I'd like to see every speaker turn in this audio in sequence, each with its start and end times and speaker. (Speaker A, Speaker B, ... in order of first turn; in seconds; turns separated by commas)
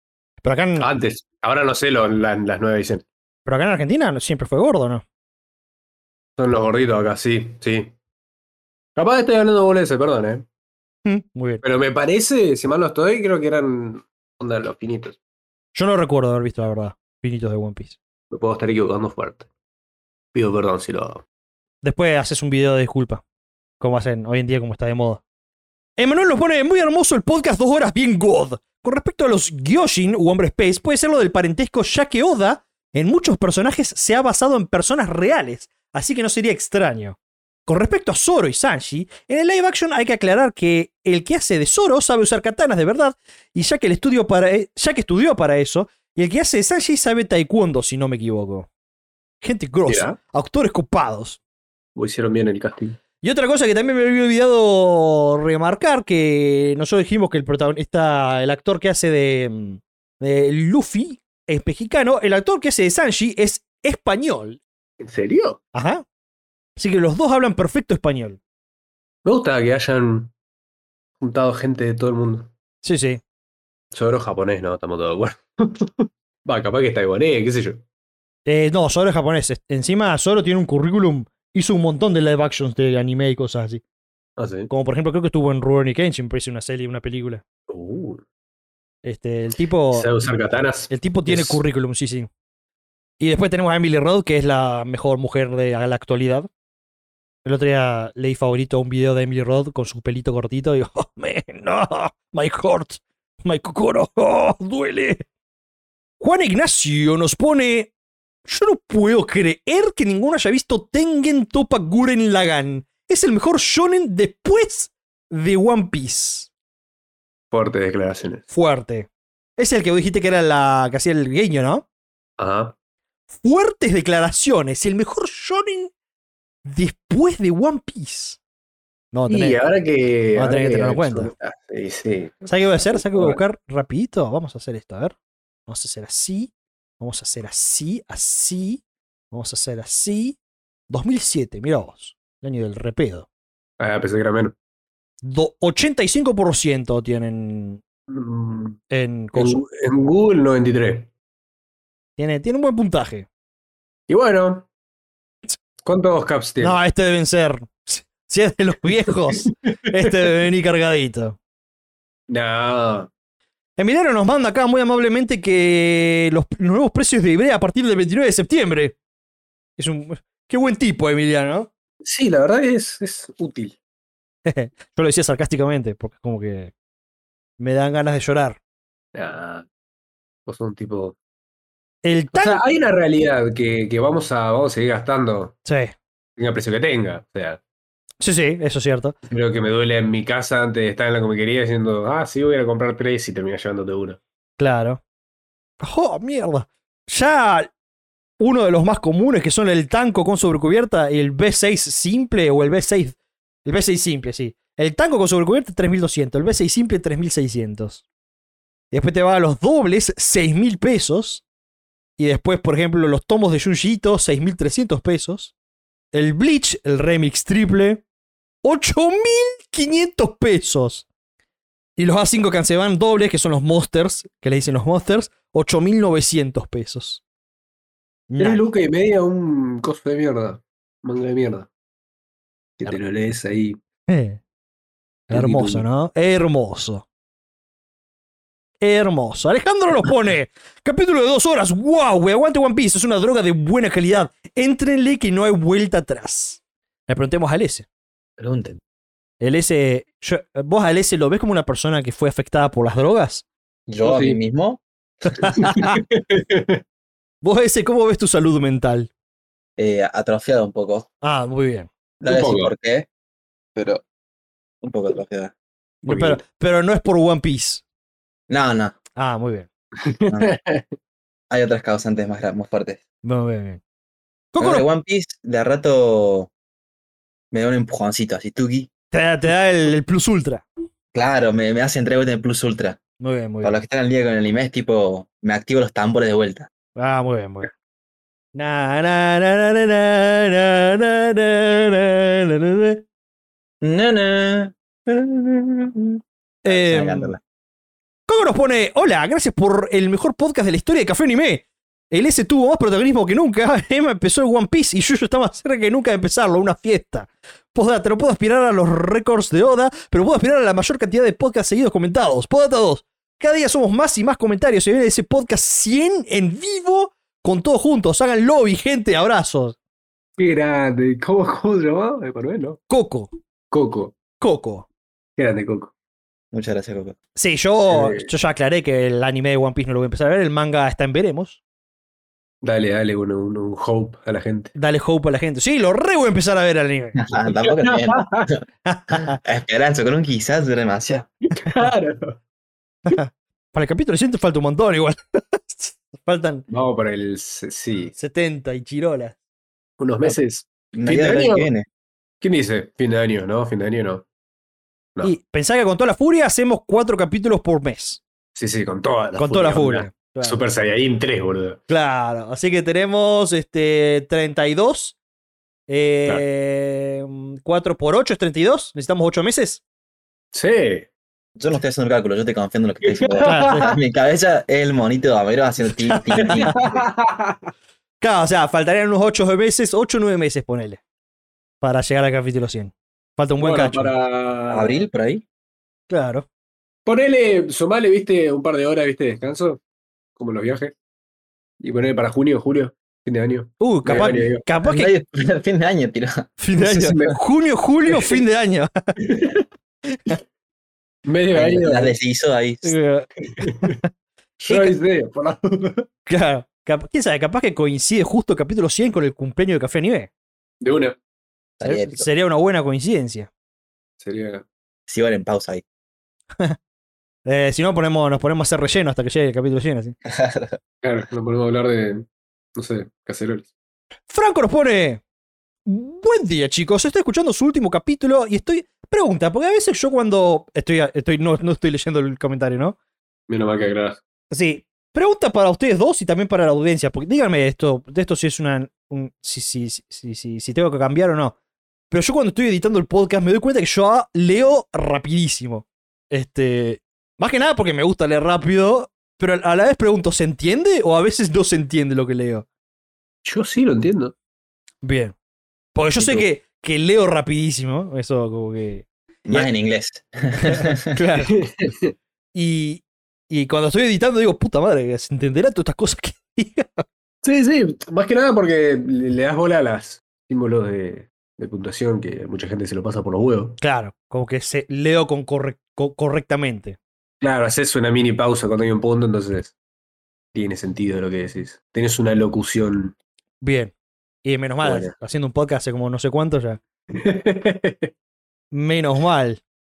Speaker A: 0.4-0.9, Speaker B: 0.8-3.0, Speaker A: 3.5-5.0, Speaker B: 6.4-7.9, Speaker B: 8.9-10.4, Speaker A: 11.0-11.6, Speaker B: 11.6-15.2, Speaker A: 15.7-18.0, Speaker B: 18.3-19.5, Speaker B: 20.3-21.2, Speaker A: 21.8-23.2, Speaker A: 23.8-25.2, Speaker A: 26.0-48.7, Speaker A: 49.4-51.4, Speaker B: 49.9-50.2, Speaker B: 52.0-53.0, Speaker A: 53.2-64.6, Speaker B: 65.0-65.6, Speaker A: 65.7-66.0, Speaker A: 66.8-68.4, Speaker B: 69.2-70.3, Speaker B: 71.2-72.5, Speaker A: 72.8-73.2, Speaker B: 73.9-77.8, Speaker A: 78.5-83.8, Speaker B: 84.4-84.7, Speaker A: 84.7-87.4, Speaker B: 87.7-88.2, Speaker A: 89.0-90.1, Speaker B: 89.9-91.6, Speaker A: 90.9-92.3, Speaker A: 93.2-96.5, Speaker A: 97.4-105.2, Speaker A: 106.2-107.9, Speaker A: 108.5-116.5, Speaker B: 117.5-118.4, Speaker A: 118.5-121.8, Speaker B: 122.4-122.7, Speaker A: 123.3-125.9, Speaker A: 126.7-128.4, Speaker A: 129.1-129.6, Speaker B: 129.3-133.4, Speaker A: 130.3-131.3, Speaker A: 132.5-135.2, Speaker A: 135.7-140.4, Speaker A: 140.9-143.3, Speaker B: 143.8-144.5, Speaker A: 145.2-147.8, Speaker B: 148.1-148.8, Speaker A: 148.9-149.6, Speaker B: 149.3-151.1, Speaker A: 152.2-153.3, Speaker B: 154.1-154.7, Speaker B: 155.8-156.8, Speaker A: 156.6-161.4, Speaker B: 159.7-160.1, Speaker B: 162.3-163.1, Speaker A: 163.8-169.0, Speaker A: 169.8-171.7, Speaker B: 172.0-173.8, Speaker A: 174.4-176.7, Speaker A: 177.6-178.6, Speaker B: 179.1-179.7, Speaker B: 180.5-181.2, Speaker A: 182.0-182.6, Speaker B: 182.3-185.6, Speaker A: 185.7-185.9, Speaker B: 186.4-187.6, Speaker A: 188.2-189.1, Speaker B: 189.3-194.2, Speaker A: 194.6-195.0, Speaker A: 195.8-197.7, Speaker A: 198.4-208.0, Speaker A: 208.9-211.4, Speaker A: 212.2-215.5, Speaker A: 216.1-218.0, Speaker A: 218.6-221.1, Speaker A: 222.0-227.2, Speaker A: 228.3-228.6, Speaker B: 228.4-231.7, Speaker B: 232.8-233.8, Speaker A: 234.1-234.4, Speaker A: 235.3-237.0, Speaker B: 235.3-235.8, Speaker A: 238.8-247.8, Speaker B: 248.4-248.8, Speaker A: 249.4-253.4, Speaker C: 253.9-254.8, Speaker B: 254.0-254.4, Speaker A: 255.4-255.9, Speaker B: 255.4-256.8, Speaker A: 257.4-259.1, Speaker C: 259.8-261.1, Speaker A: 261.2-261.9, Speaker C: 262.2-263.1, Speaker B: 262.2-262.7, Speaker C: 263.7-264.0, Speaker C: 264.8-265.5, Speaker A: 266.0-267.8, Speaker B: 266.1-266.4, Speaker C: 268.5-269.0, Speaker A: 269.1-269.7, Speaker B: 270.0-270.8, Speaker C: 271.5-273.0, Speaker A: 273.2-273.8, Speaker A: 274.5-274.9, Speaker C: 274.6-276.5, Speaker C: 277.5-278.9, Speaker A: 279.1-280.6, Speaker C: 281.1-283.0, Speaker A: 283.2-283.8, Speaker C: 283.6-286.7, Speaker A: 286.9-287.7, Speaker A: 288.5-293.0, Speaker C: 293.8-297.4, Speaker A: 296.6-297.4, Speaker A: 298.3-319.8, Speaker B: 320.4-322.8, Speaker A: 322.9-323.3, Speaker B: 323.7-324.2, Speaker A: 324.4-324.9, Speaker B: 325.4-325.9, Speaker C: 326.5-327.1, Speaker A: 327.4-331.6, Speaker B: 327.9-328.3, Speaker B: 332.6-334.7, Speaker A: 334.7-337.2, Speaker C: 337.2-341.3, Speaker B: 337.6-338.5, Speaker A: 338.8-339.4, Speaker B: 341.5-342.4, Speaker A: 343.1-346.6, Speaker B: 346.7-348.1, Speaker A: 348.1-349.4, Speaker B: 350.0-351.7, Speaker C: 350.9-351.9, Speaker B: 352.4-354.2, Speaker A: 355.2-358.2, Speaker B: 358.6-361.8, Speaker A: 359.3-360.6, Speaker A: 361.9-365.2, Speaker A: 365.9-369.8, Speaker B: 370.5-371.1, Speaker C: 371.6-377.1, Speaker B: 373.0-373.9, Speaker A: 373.4-373.9, Speaker A: 376.1-376.6, Speaker B: 376.4-377.6, Speaker A: 378.2-381.0, Speaker A: 381.8-384.1, Speaker B: 383.6-385.0, Speaker C: 384.7-385.4, Speaker A: 386.1-386.4, Speaker B: 387.1-389.8, Speaker B: 390.4-390.9, Speaker B: 391.8-394.6, Speaker A: 393.8-395.1, Speaker C: 394.8-396.6, Speaker A: 396.6-399.1, Speaker B: 396.8-397.4, Speaker B: 398.1-398.4, Speaker B: 399.2-399.6, Speaker A: 400.1-400.4, Speaker B: 401.2-402.1, Speaker C: 401.5-402.9, Speaker A: 402.8-404.1, Speaker B: 403.6-404.0, Speaker B: 404.6-406.1, Speaker A: 404.7-404.9, Speaker A: 406.2-410.3, Speaker B: 410.8-411.1, Speaker C: 411.8-412.3, Speaker A: 411.8-413.5, Speaker B: 414.2-414.6, Speaker C: 415.1-415.8, Speaker A: 417.4-420.1, Speaker C: 420.2-420.7, Speaker B: 421.0-423.7, Speaker A: 424.3-425.2, Speaker A: 425.9-433.0, Speaker B: 433.5-434.2, Speaker A: 434.5-441.5, Speaker A: 442.1-452.6, Speaker B: 453.4-454.3, Speaker A: 455.0-455.3, Speaker A: 455.9-459.7, Speaker C: 456.2-456.5, Speaker C: 459.5-461.1, Speaker A: 460.6-461.5, Speaker B: 461.5-462.1, Speaker A: 462.5-467.0, Speaker B: 467.4-473.8, Speaker A: 473.8-477.0, Speaker B: 477.4-479.7, Speaker B: 480.5-483.1, Speaker A: 483.6-486.8, Speaker B: 484.8-485.1, Speaker B: 487.1-488.1, Speaker A: 488.7-489.6